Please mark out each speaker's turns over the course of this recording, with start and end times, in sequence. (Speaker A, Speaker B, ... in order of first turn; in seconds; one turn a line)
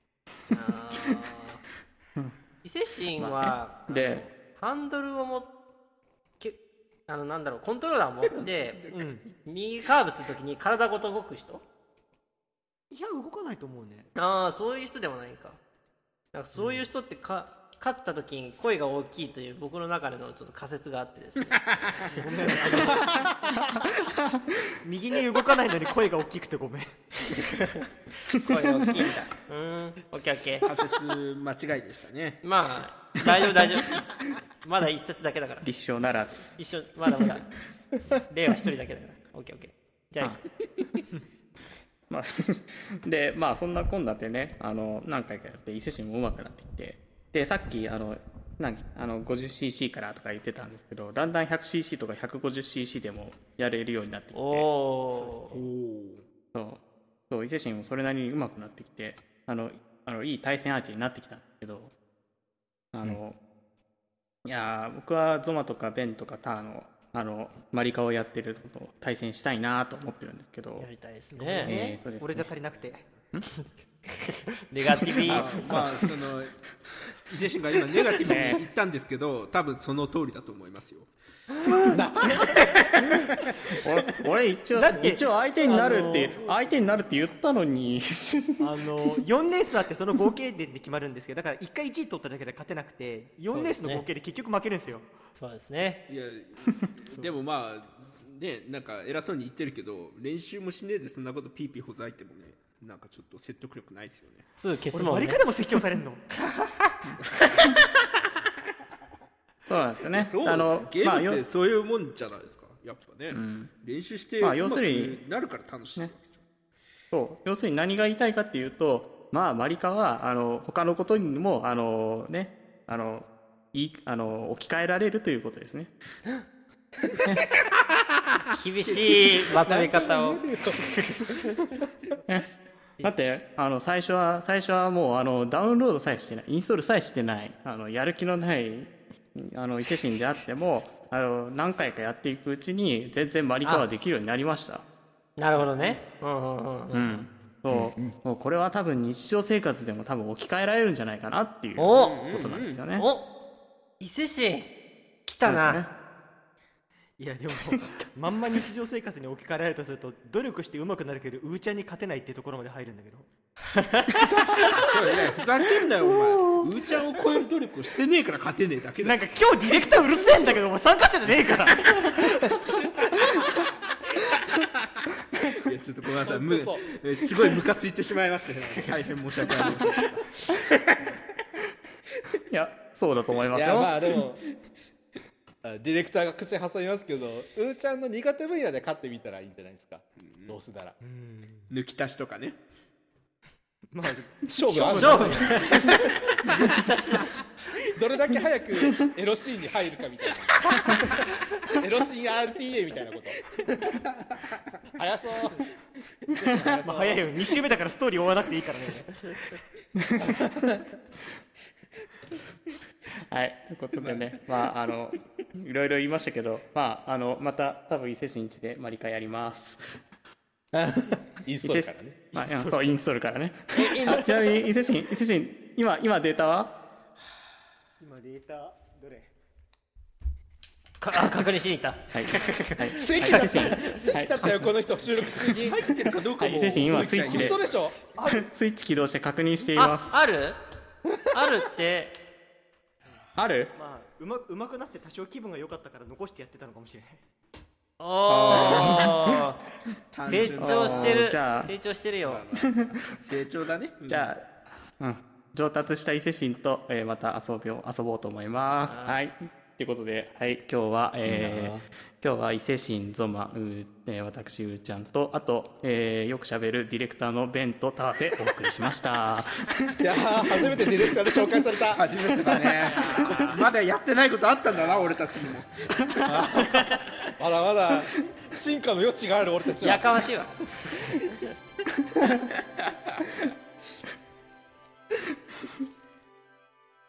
Speaker A: 0.5-1.6
Speaker A: 2.6-5.5
Speaker B: 3.2-4.2
Speaker A: 6.4-8.8
Speaker C: 8.4-9.0
Speaker D: 8.9-9.2
Speaker A: 9.4-11.6
Speaker D: 12.9-14.1
Speaker A: 14.1-15.6
Speaker A: 16.3-21.6
Speaker D: 16.5-16.8
Speaker C: 21.5-22.1
Speaker D: 22.1-23.4
Speaker A: 22.5-23.1
Speaker B: 23.8-24.4
Speaker D: 24.8-27.0
Speaker A: 27.6-30.7
Speaker B: 28.4-28.9
Speaker C: 30.6-32.4
Speaker A: 32.4-34.0
Speaker A: 34.6-35.6
Speaker B: 35.6-36.6
Speaker A: 36.6-37.5
Speaker A: 38.3-40.4
Speaker B: 42.1-54.7
Speaker A: 54.3-55.6
Speaker D: 55.1-55.5
Speaker C: 55.5-56.2
Speaker B: 56.5-61.9
Speaker B: 62.9-63.4
Speaker B: 64.4-70.9
Speaker A: 70.8-71.7
Speaker D: 71.3-73.0
Speaker B: 71.6-72.5
Speaker A: 74.7-75.8
Speaker B: 75.2-76.1
Speaker C: 75.3-76.6
Speaker C: 77.3-81.1
Speaker B: 78.2-78.6
Speaker E: 81.9-82.4
Speaker C: 82.8-83.1
Speaker B: 83.8-88.7
Speaker D: 84.7-86.7
Speaker D: 88.6-95.1
Speaker A: 93.5-94.0
Speaker A: 95.3-96.0
Speaker C: 96.1-104.4
Speaker A: 104.6-105.4
Speaker D: 104.9-106.2
Speaker B: 109.7-111.4
Speaker C: 110.1-116.4
Speaker B: 113.3-113.7
Speaker B: 114.4-115.2
Speaker B: 117.1-125.9
Speaker A: 128.5-130.4
Speaker E: 129.6-131.3
Speaker B: 133.0-144.8
Speaker A: 145.4-147.2
Speaker B: 145.6-145.9
Speaker B: 146.9-153.1
Speaker E: 147.7-148.1
Speaker A: 151.8-152.2
Speaker C: 151.9-152.8
Speaker A: 152.9-153.3
Speaker A: 154.0-154.7
Speaker A: 155.2-155.9
Speaker B: 155.4-155.9
Speaker D: 157.2-163.3
Speaker A: 163.7-164.2
Speaker E: 164.1-164.8
Speaker C: 164.7-169.2
Speaker D: 169.0-172.7
Speaker C: 175.5-181.0
Speaker E: 176.2-176.9
Speaker B: 182.5-184.1
Speaker E: 183.5-184.4
Speaker E: 185.6-191.0
Speaker C: 190.2-190.6
Speaker D: 191.0-191.7
Speaker C: 191.7-192.6
Speaker D: 193.9-196.1
Speaker E: 194.4-196.0
Speaker A: 194.8-197.4
Speaker E: 197.9-203.6
Speaker E: 204.9-205.7
Speaker E: 206.3-207.3
Speaker D: 206.6-209.3
Speaker B: 210.0-210.4
Speaker E: 210.4-210.8
Speaker B: 213.3-219.9
Speaker C: 214.0-214.3
Speaker E: 220.7-222.2
Speaker B: 221.6-226.7
Speaker D: 222.3-222.9
Speaker D: 224.0-224.3
Speaker D: 228.0-229.3
Speaker A: 231.0-233.1
Speaker B: 232.1-234.7
Speaker E: 232.9-235.9
Speaker B: 235.3-237.6
Speaker C: 235.6-237.8
Speaker E: 236.9-238.0
Speaker D: 238.2-238.5
Speaker B: 238.2-240.2
Speaker A: 239.8-240.6
Speaker A: 241.3-242.1
Speaker B: 243.3-243.7
Speaker D: 243.7-247.2
Speaker A: 248.0-249.6
Speaker C: 248.3-249.3
Speaker C: 250.1-251.3
Speaker A: 250.2-252.4
Speaker B: 250.6-251.7
Speaker C: 252.2-254.3
Speaker B: 254.1-269.9
Speaker A: 258.8-259.2
Speaker E: 261.2-261.8
Speaker E: 270.0-272.0
Speaker C: 271.9-276.2
Speaker B: 272.5-273.6
Speaker E: 276.2-280.2
Speaker A: 279.8-280.6